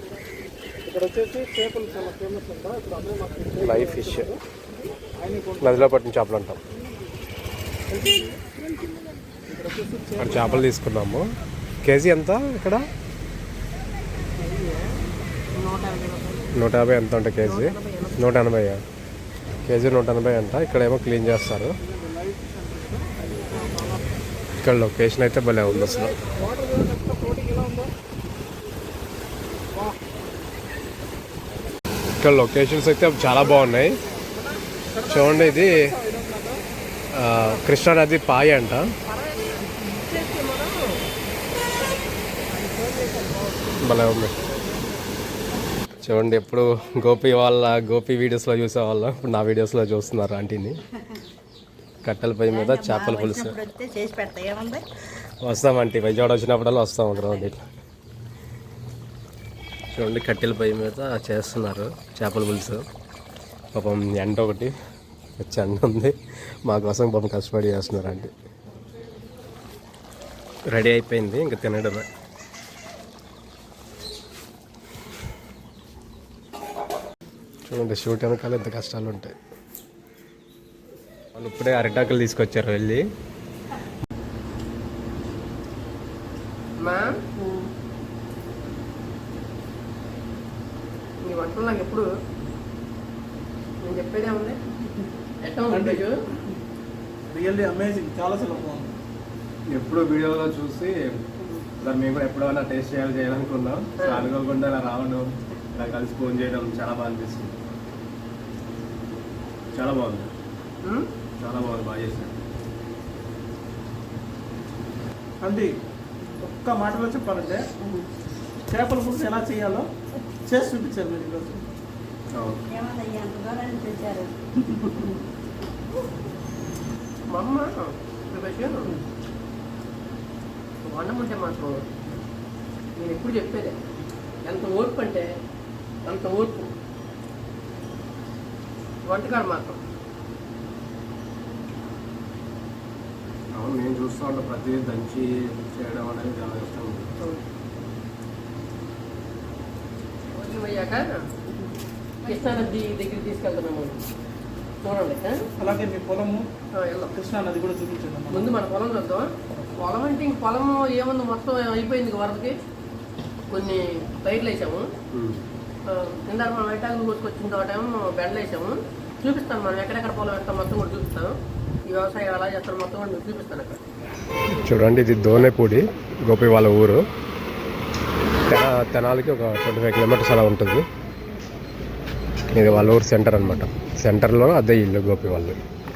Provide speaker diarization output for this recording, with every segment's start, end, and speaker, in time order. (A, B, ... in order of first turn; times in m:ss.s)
0:00.8-0:04.4 A
0:03.6-0:04.3 B
0:05.2-0:05.9 A
0:05.6-0:06.6 B
0:07.9-0:08.4 A
0:09.5-0:10.6 A
0:10.2-0:11.2 B
0:11.8-0:12.8 B
0:14.4-0:14.9 C
0:15.6-0:16.5 C
0:16.5-0:18.8 B
0:17.4-0:18.2 C
0:19.6-0:21.7 B
0:21.8-0:24.0 A
0:24.6-0:26.1 B
0:25.7-0:27.9 A
0:29.7-0:30.0 A
0:32.2-0:34.0 B
0:34.3-0:36.6 A
0:35.1-0:35.8 B
0:37.1-0:38.8 B
0:39.1-0:40.9 C
0:42.5-0:43.5 C
0:43.8-0:44.4 B
0:46.0-0:50.8 B
0:52.0-0:53.6 B
0:52.5-0:54.9 D
0:55.4-0:57.6 B
0:59.9-1:02.8 B
1:03.7-1:04.7 B
1:05.4-1:06.1 B
1:06.7-1:08.3 B
1:10.7-1:12.0 B
1:17.7-1:19.3 B
1:21.4-1:23.0 B
1:26.8-1:27.2 C
1:27.4-1:27.7 D
1:31.2-1:32.1 C
1:33.8-1:34.6 C
1:35.4-1:36.2 C
1:35.7-1:36.0 A
1:37.3-1:38.9 A
1:39.7-1:41.2 B
1:41.8-1:47.6 B
1:44.0-1:44.3 C
1:49.7-1:50.3 B
1:51.4-1:52.4 B
1:55.4-1:55.7 A
1:56.3-1:57.6 A
1:57.8-1:58.1 D
1:58.7-1:59.9 A
2:00.4-2:01.6 A
2:02.3-2:02.7 B
2:02.7-2:04.3 D
2:07.3-2:09.0 C
2:10.9-2:11.9 C
2:13.0-2:13.8 C
2:14.4-2:15.3 C
2:16.0-2:16.7 C
2:19.1-2:19.8 C
2:23.5-2:27.1 B
2:30.3-2:31.2 C
2:32.2-2:34.0 C
2:34.8-2:35.4 C
2:35.6-2:36.4 A
2:36.7-2:37.1 C
2:37.1-2:38.6 A
2:38.3-2:42.5 C
2:43.5-2:44.9 C
2:45.1-2:45.4 B
2:45.9-2:51.3 C
2:51.9-2:53.8 C
2:54.5-2:57.0 B
2:58.5-3:00.8 B
3:02.5-3:05.6 B